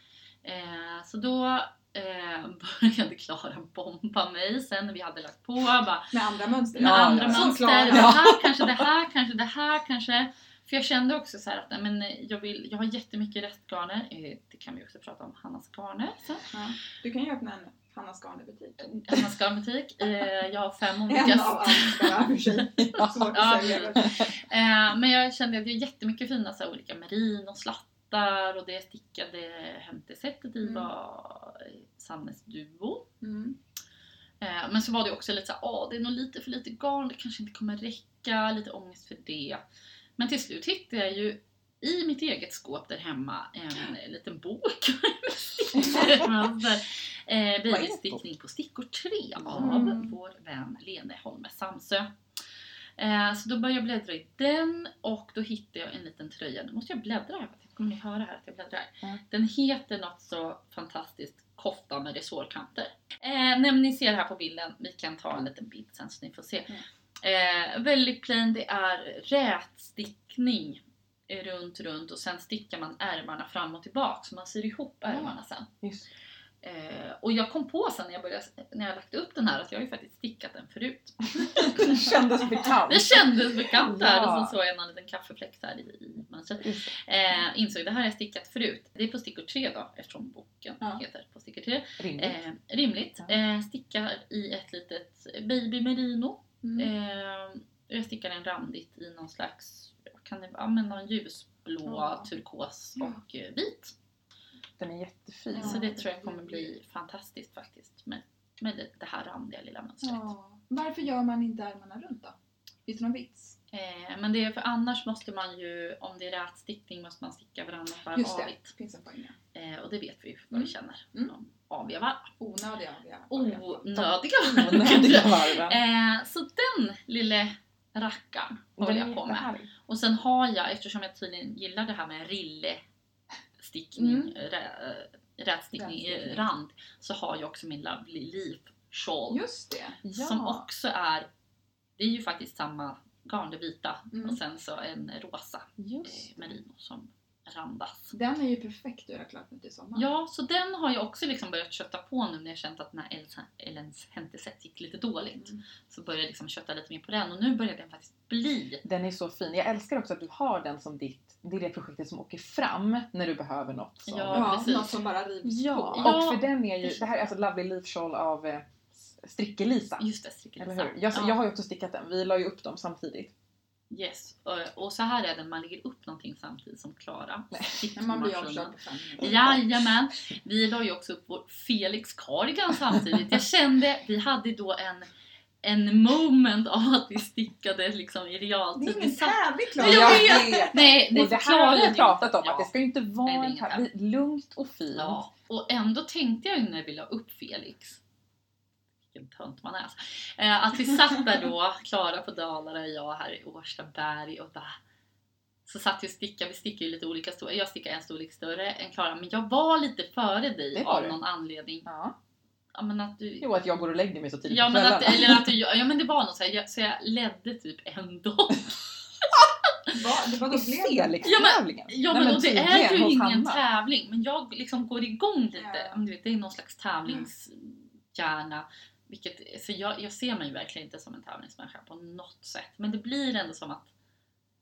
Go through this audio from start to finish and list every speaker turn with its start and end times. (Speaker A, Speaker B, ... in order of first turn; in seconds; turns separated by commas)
Speaker A: 0.4-6.1, Speaker B: 6.1-8.2, Speaker A: 6.8-16.5, Speaker C: 6.8-8.9, Speaker B: 16.5-19.2, Speaker A: 19.1-22.2, Speaker B: 21.1-24.1, Speaker C: 22.8-23.3, Speaker A: 22.9-33.1, Speaker C: 24.0-24.3, Speaker B: 30.6-30.9, Speaker B: 33.2-33.6, Speaker A: 34.4-39.6, Speaker A: 40.2-52.1, Speaker C: 45.8-46.3, Speaker C: 47.7-48.2, Speaker C: 49.4-49.8, Speaker B: 49.6-50.1, Speaker A: 53.0-75.7, Speaker C: 75.0-76.0, Speaker A: 76.6-82.0, Speaker C: 81.6-84.5, Speaker A: 82.9-103.9, Speaker C: 86.6-86.9, Speaker C: 92.0-92.4, Speaker B: 96.6-96.9, Speaker B: 101.9-102.3, Speaker C: 104.8-105.9, Speaker A: 105.5-110.3, Speaker B: 105.5-106.7, Speaker B: 110.0-113.5, Speaker A: 113.7-118.7, Speaker B: 118.2-119.4, Speaker A: 119.5-122.3, Speaker B: 120.5-121.3, Speaker B: 122.4-124.1, Speaker A: 123.3-132.8, Speaker C: 124.4-125.8, Speaker C: 128.8-129.7, Speaker A: 133.6-139.4, Speaker B: 134.0-134.3, Speaker B: 135.8-136.5, Speaker B: 139.3-140.0, Speaker C: 140.1-140.7, Speaker A: 140.1-141.3, Speaker A: 142.0-148.2, Speaker B: 144.1-144.4, Speaker C: 145.8-146.6, Speaker B: 148.1-150.1, Speaker A: 149.9-158.8, Speaker B: 155.3-155.6, Speaker C: 158.8-164.8, Speaker A: 164.1-164.9, Speaker B: 164.3-166.3, Speaker C: 165.4-170.1, Speaker A: 166.0-166.4, Speaker A: 170.0-171.4, Speaker C: 170.6-173.3, Speaker A: 173.9-185.1, Speaker C: 177.5-177.9, Speaker B: 178.0-179.6, Speaker C: 179.2-179.6, Speaker A: 185.6-192.7, Speaker B: 188.8-190.8, Speaker C: 189.8-195.2, Speaker A: 193.2-193.8, Speaker A: 194.9-198.0, Speaker A: 199.1-204.8, Speaker A: 205.7-211.9, Speaker C: 210.7-211.2, Speaker C: 211.9-212.2, Speaker A: 212.7-213.5, Speaker C: 213.4-215.5, Speaker A: 214.5-220.0, Speaker B: 219.9-221.4, Speaker C: 220.5-223.6, Speaker A: 221.2-233.9, Speaker B: 225.6-226.0